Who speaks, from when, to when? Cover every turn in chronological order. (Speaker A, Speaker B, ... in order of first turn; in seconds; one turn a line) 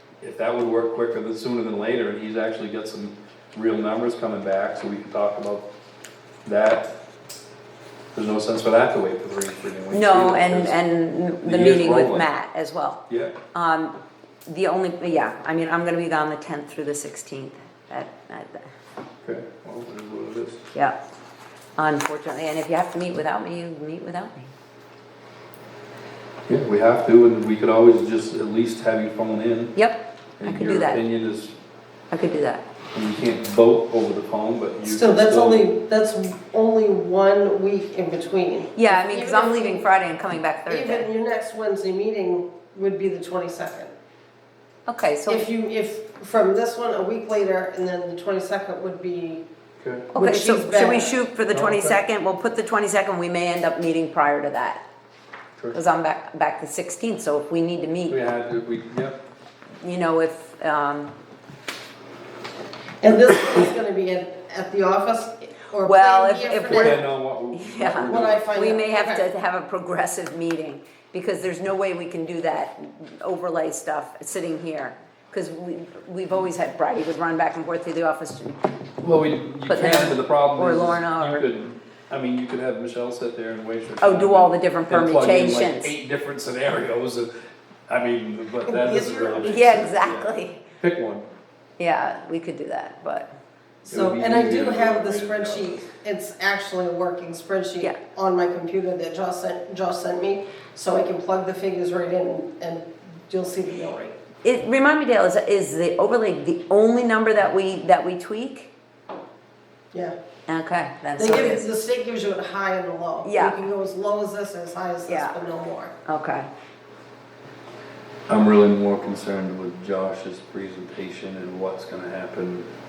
Speaker A: 0.2-5.7
Speaker A: 6.5-6.9
Speaker A: 8.1-10.8
Speaker B: 9.9-18.7
Speaker A: 11.4-12.3
Speaker A: 13.1-13.4
Speaker A: 19.2-20.6
Speaker B: 21.8-24.5
Speaker A: 26.5-29.8
Speaker B: 29.8-31.0
Speaker A: 30.4-31.5
Speaker B: 32.1-32.6
Speaker A: 32.9-35.7
Speaker C: 34.8-39.9
Speaker B: 38.8-41.1
Speaker C: 40.7-43.9
Speaker B: 44.9-45.5
Speaker C: 45.3-49.4
Speaker A: 49.8-50.1
Speaker B: 50.1-54.8
Speaker C: 50.1-51.2
Speaker A: 51.5-52.0
Speaker B: 55.7-58.2
Speaker A: 58.1-59.2
Speaker B: 59.8-61.1
Speaker C: 63.0-67.0
Speaker B: 65.8-78.6
Speaker A: 66.7-68.5
Speaker C: 68.0-69.3
Speaker A: 79.0-87.3
Speaker B: 79.7-81.5
Speaker B: 84.0-85.9
Speaker A: 87.9-91.2
Speaker C: 88.7-89.9
Speaker B: 89.4-90.6
Speaker B: 91.8-93.3
Speaker C: 93.8-104.2
Speaker A: 93.9-95.8
Speaker B: 104.4-108.7
Speaker B: 110.5-111.7
Speaker C: 111.2-115.9
Speaker B: 113.2-113.7
Speaker B: 115.1-115.3
Speaker B: 116.1-116.5
Speaker A: 118.3-122.7